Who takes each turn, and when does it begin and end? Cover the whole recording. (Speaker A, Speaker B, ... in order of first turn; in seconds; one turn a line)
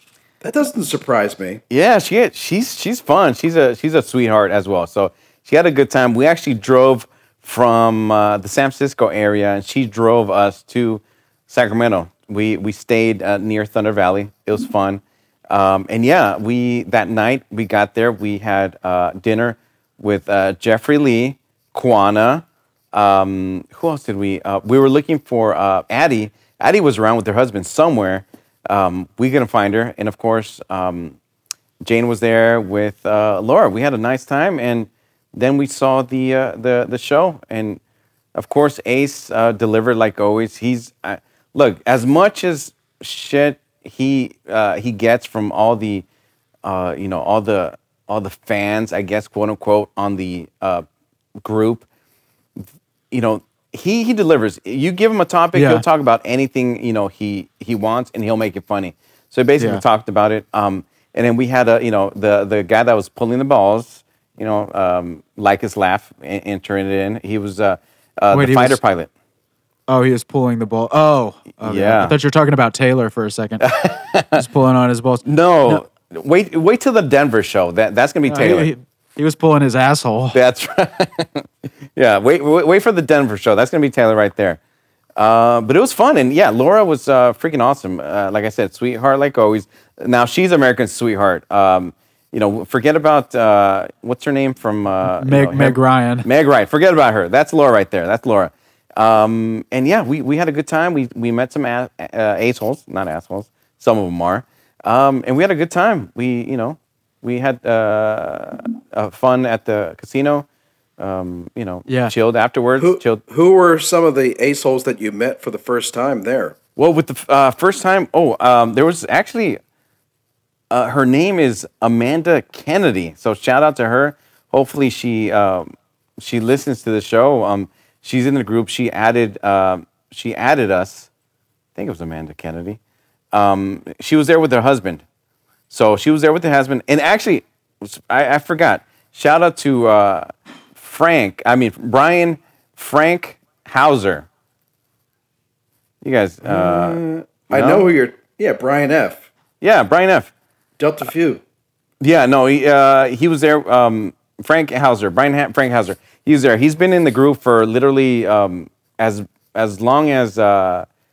Speaker A: 0.4-1.6
Speaker B: 1.7-31.2
Speaker B: 31.8-37.8
Speaker B: 38.4-46.0
Speaker B: 46.6-50.9
Speaker B: 51.4-51.9
Speaker B: 52.6-69.1
Speaker C: 55.5-55.8
Speaker C: 68.3-68.8
Speaker C: 69.9-73.8
Speaker B: 71.6-72.2
Speaker B: 73.6-74.4
Speaker C: 74.3-75.8
Speaker B: 75.2-78.7
Speaker C: 78.3-80.4
Speaker B: 80.3-84.6
Speaker B: 85.2-110.5
Speaker C: 95.0-96.3
Speaker B: 111.0-113.2
Speaker C: 111.9-112.1
Speaker A: 112.8-116.6
Speaker B: 116.8-119.6
Speaker B: 120.7-131.1
Speaker B: 131.8-132.8
Speaker B: 133.3-135.0
Speaker B: 135.7-144.3
Speaker B: 146.0-147.9
Speaker A: 146.4-149.3
Speaker B: 149.6-150.3
Speaker A: 150.8-151.4
Speaker B: 152.0-160.9